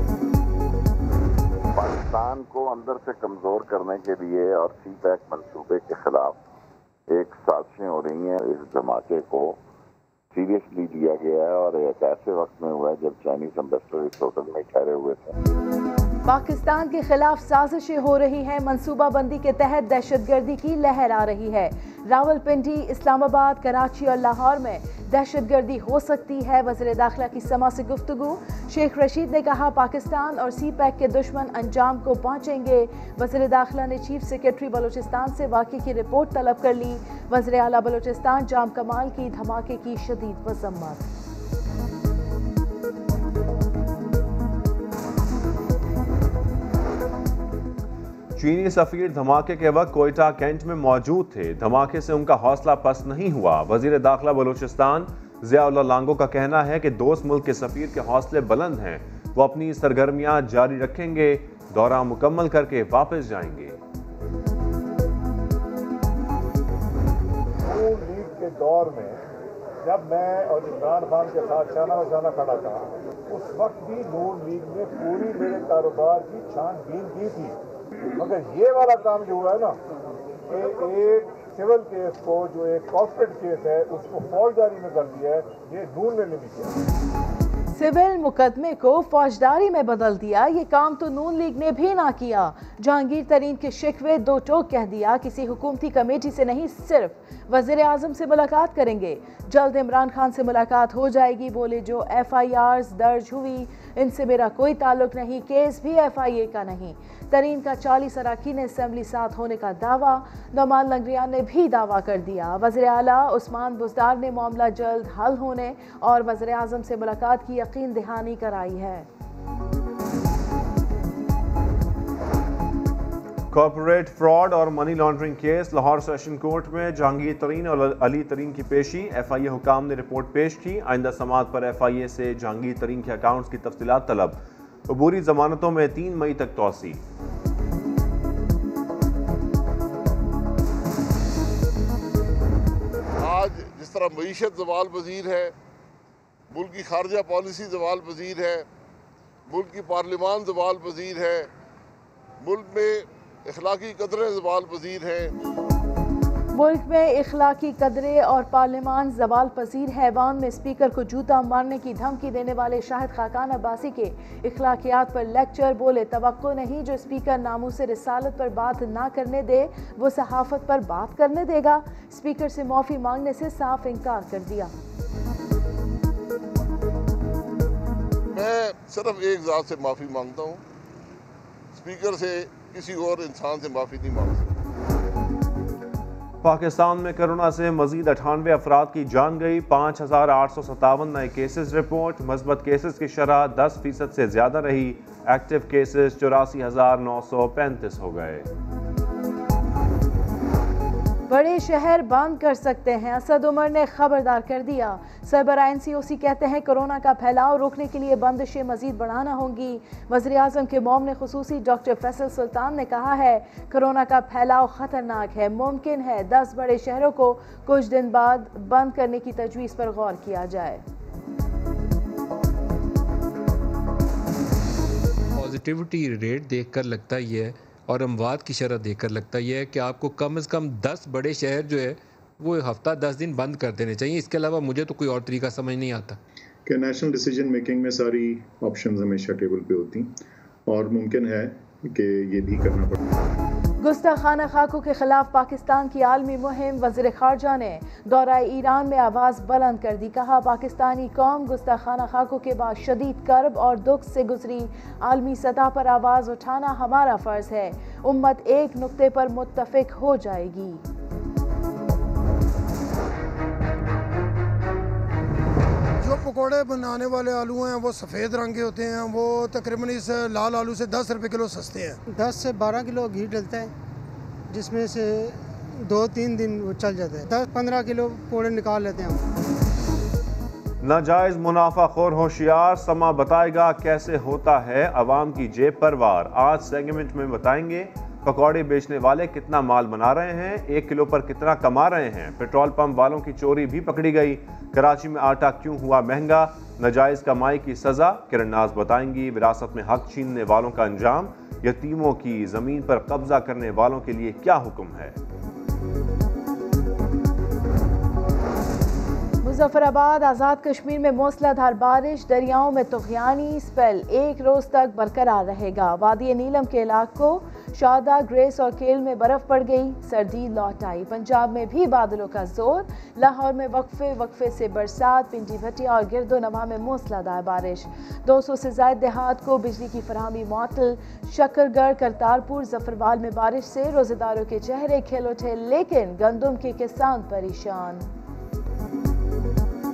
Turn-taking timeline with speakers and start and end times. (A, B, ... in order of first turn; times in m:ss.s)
0:01.7-0:06.4 A
0:07.1-0:09.6 A
0:10.3-0:15.4 A
0:16.2-0:41.1 B
0:48.4-1:03.8 C
1:07.6-1:09.2 D
1:09.8-1:17.6 D
1:18.2-1:19.8 D
1:20.5-1:26.8 D
1:27.7-1:59.1 B
2:03.5-2:17.0 C
2:23.2-2:25.5 E
2:26.5-2:28.6 E
2:29.5-2:31.5 E
2:32.4-2:35.3 E
2:36.5-2:54.7 B
2:58.3-3:00.6 E
3:01.7-3:04.5 E
3:06.4-3:18.5 C
3:21.3-3:40.8 B
3:45.4-3:56.2 F
3:56.7-4:00.1 G
4:00.7-4:03.0 G
4:03.8-4:20.8 B
4:26.0-4:32.0 H
4:32.1-4:33.7 I
4:34.5-4:39.2 I
4:40.8-5:05.2 C
5:09.4-5:38.0 B